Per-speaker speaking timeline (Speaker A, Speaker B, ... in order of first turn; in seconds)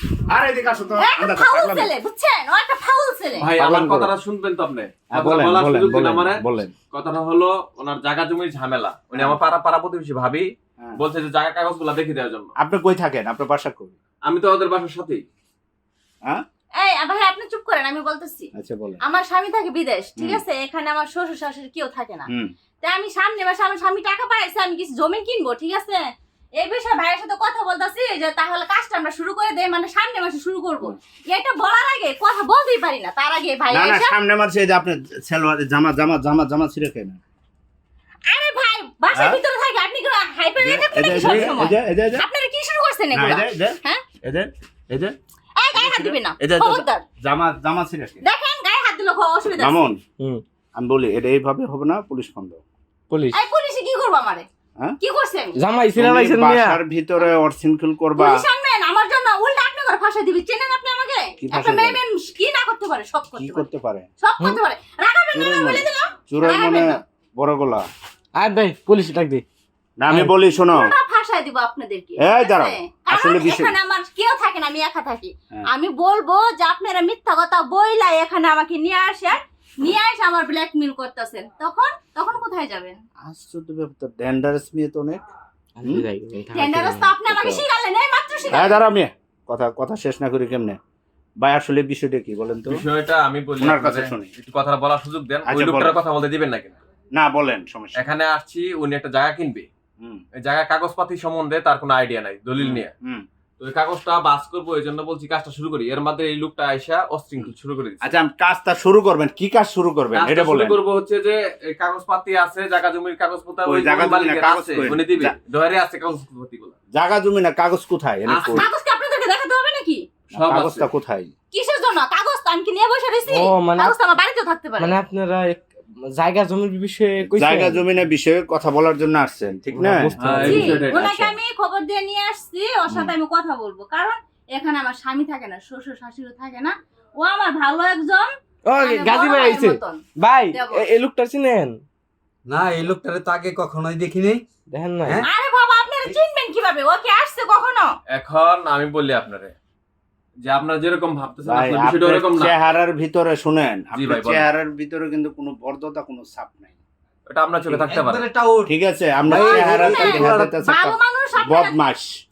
Speaker A: 0.3-1.9, 3.6-4.1, 5.1-6.7, 9.1-9.4, 12.6-14.0, 18.6-19.0, 20.2-20.4, 33.7-37.2, 39.1-39.4, 40.6-42.2, 43.1-45.1, 45.7-48.2, 49.5-50.0, 50.8-52.6, 56.0-58.4, 61.4-62.0, 63.4-64.1, 65.3-67.9, 70.0-70.9, 72.2-73.8, 83.2-85.2, 87.2-87.6, 88.5-90.8, 91.4-92.8, 93.6-94.3, 95.5-96.0, 97.2-98.0, 102.6-103.2, 108.0-110.8, 113.7-115.3, 116.9-118.7, 120.4-121.3, 127.3-131.3, 132.9-133.1, 151.4-156.8, 158.7-162.2
Speaker B: 1.0-3.5, 16.8-18.5, 19.1-22.3, 22.8-34.2, 38.3-44.1, 45.6-47.0, 48.2-49.9, 53.3-54.5, 55.0-55.5, 58.1-63.7, 64.2-67.0, 70.7-83.0, 86.5-88.8, 118.5-120.1, 121.5-125.0, 130.4-140.0, 140.5-140.9, 145.2-147.9, 159.3-161.8
Speaker C: 3.4-12.5, 14.2-15.2, 92.7-96.8, 98.0-99.7, 100.4-102.9, 103.6-108.1, 110.1-116.8, 118.3-118.7, 120.3-120.9, 130.2-131.1, 148.1-149.5, 150.5-152.7, 153.9-154.5, 157.3-158.3
Speaker D: 53.1-53.4, 55.6-56.8, 68.4-69.4, 85.8-87.1, 123.3-123.9, 124.8-127.9, 129.7-130.8, 138.7-141.8, 144.7-145.2
Speaker E: 142.5-144.4, 157.7-158.7, 159.2-160.6